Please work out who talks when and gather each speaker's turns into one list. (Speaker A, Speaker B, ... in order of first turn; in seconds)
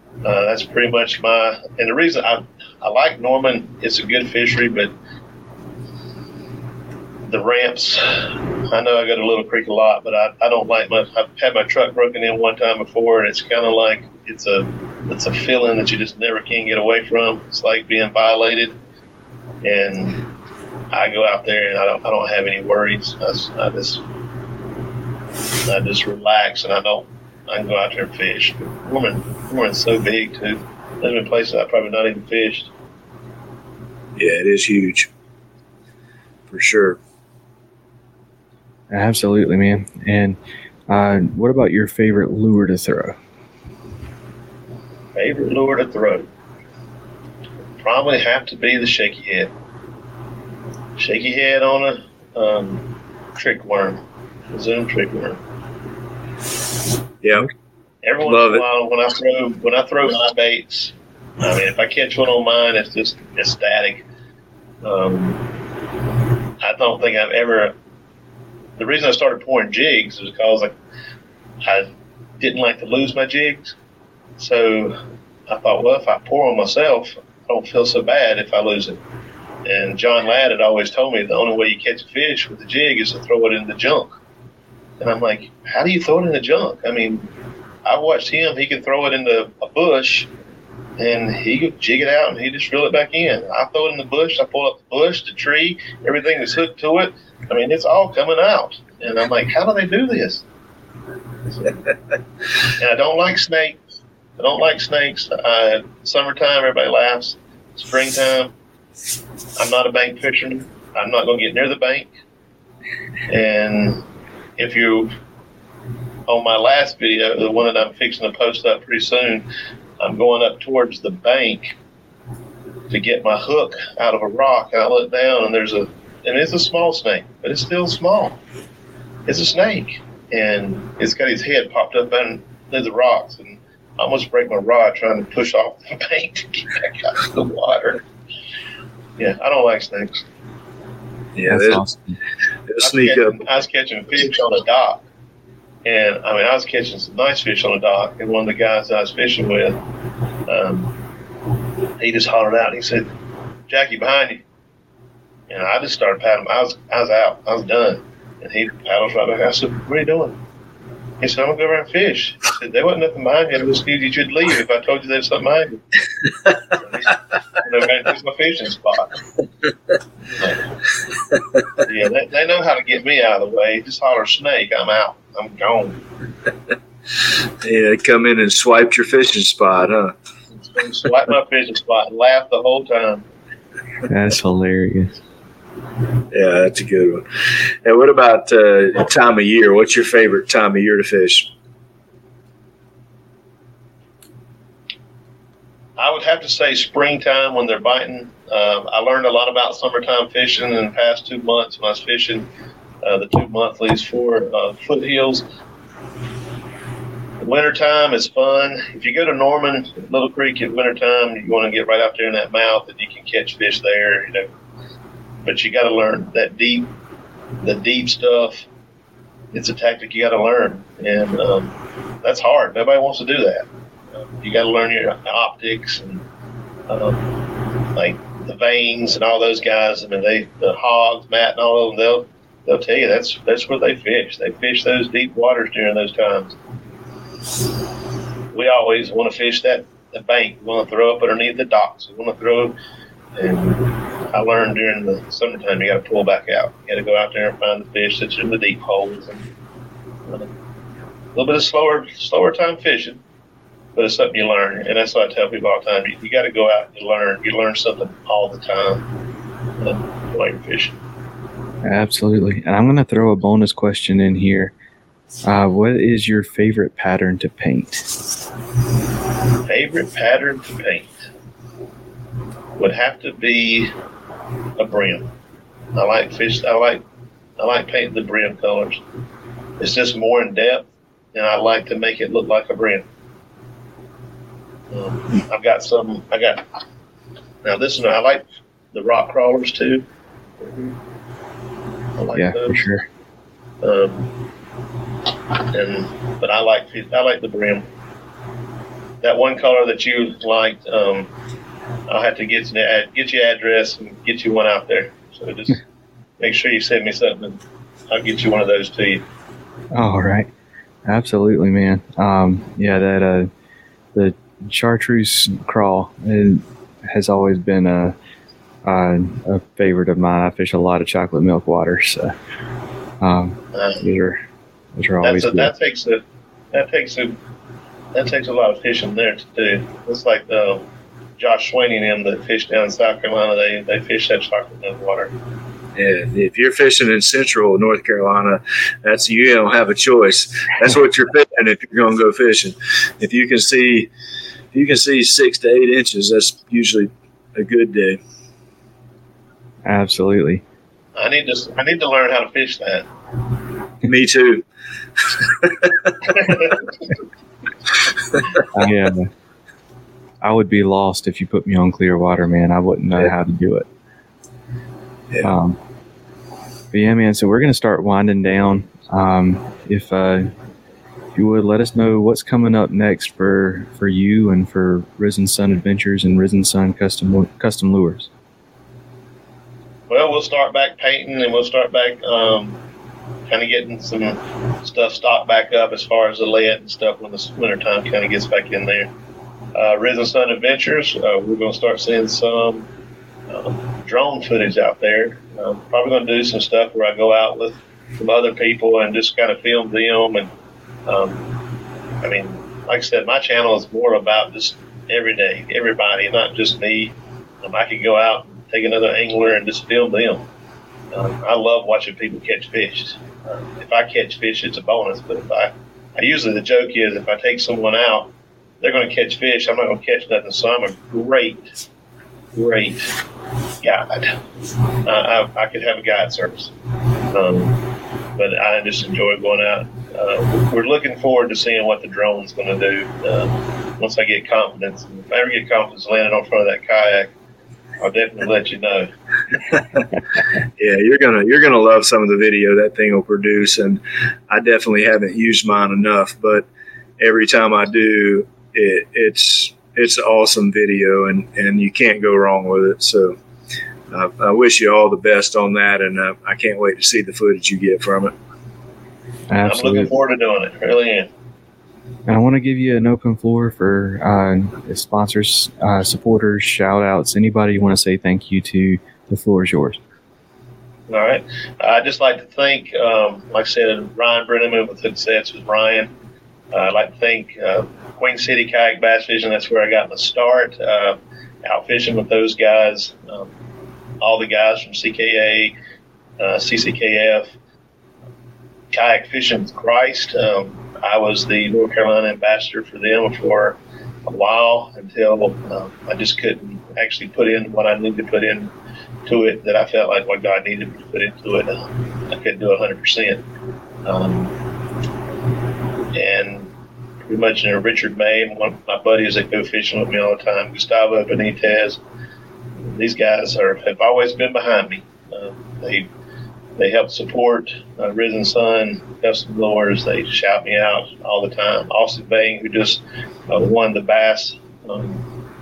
Speaker A: 0.2-4.9, 7.3-18.8, 19.6-20.3, 20.9-24.0, 25.6-32.7, 45.1-46.3, 47.8-49.5, 51.0-55.4, 58.0-64.0, 64.8-65.5, 66.6-67.7, 68.8-70.7, 71.6-73.7, 74.4-75.0, 75.5-79.0, 79.6-84.1, 85.0-87.3, 87.8-90.3, 91.0-100.4, 101.5-101.8, 102.7-103.8, 104.4-108.5, 109.5-112.1, 113.3-114.0, 114.6-115.1, 116.3-119.5, 120.0-121.7, 122.9-128.4, 129.3-138.0, 139.2-140.2, 142.8-145.0, 145.8-149.8, 150.5-151.0, 152.0-153.1, 153.7-154.4, 155.5-160.4, 161.2-166.0, 166.7-169.2, 170.3-170.7, 171.8-176.0, 180.7-183.2, 196.0-202.5, 203.0-205.4, 207.4-214.5, 215.4-216.9, 217.6-218.7, 219.5-226.2, 226.9-236.6, 238.5-242.7, 243.4-249.5, 251.3-253.2, 253.9-259.1, 259.8-261.0, 269.6-271.2, 272.8-273.9, 274.8-275.3, 275.9-277.0, 277.6-279.0, 279.8-283.1, 284.9-286.6, 287.6-290.1, 290.6-291.0, 292.1-292.9, 293.8-294.4, 295.7-297.9, 299.2-301.3, 302.1-305.8, 306.4-309.2, 323.7-324.0, 325.2-327.4, 328.1-330.8, 331.4-335.3, 351.1-353.1, 356.2-356.9, 380.1-382.8, 383.5-389.1, 389.7-392.9, 393.5-400.5, 401.1-401.6, 402.2-410.4, 411.1-421.7, 422.5-423.1, 423.8-424.4, 425.0-426.7, 427.3-437.3, 438.0-439.1, 459.6-461.3, 471.1-476.1, 476.7-483.5, 484.2-485.7, 486.4-487.5, 488.9-498.7, 499.2-503.4, 504.0-504.6, 506.1-506.7, 507.2-512.0, 512.8-516.1, 516.8-525.3
Speaker B: 34.1-35.1, 36.5-37.0, 57.2-57.5, 58.2-58.6, 141.3-141.8, 142.7-143.4, 177.6-180.1, 186.3-191.5, 335.9-344.1, 344.7-348.2, 354.0-354.6, 355.3-356.5, 440.8-446.6, 447.2-453.4, 454.1-458.3
Speaker C: 38.9-43.2, 141.5-142.2, 184.1-185.2, 261.8-264.7, 265.4-268.1, 292.3-293.1, 309.9-310.5, 311.1-313.5, 314.1-318.1, 318.8-322.3, 323.2-324.4, 324.9-325.7, 349.8-350.6, 358.7-359.3, 360.4-363.9, 365.4-365.8, 366.9-370.5, 371.3-378.3, 459.5-460.1, 462.2-470.0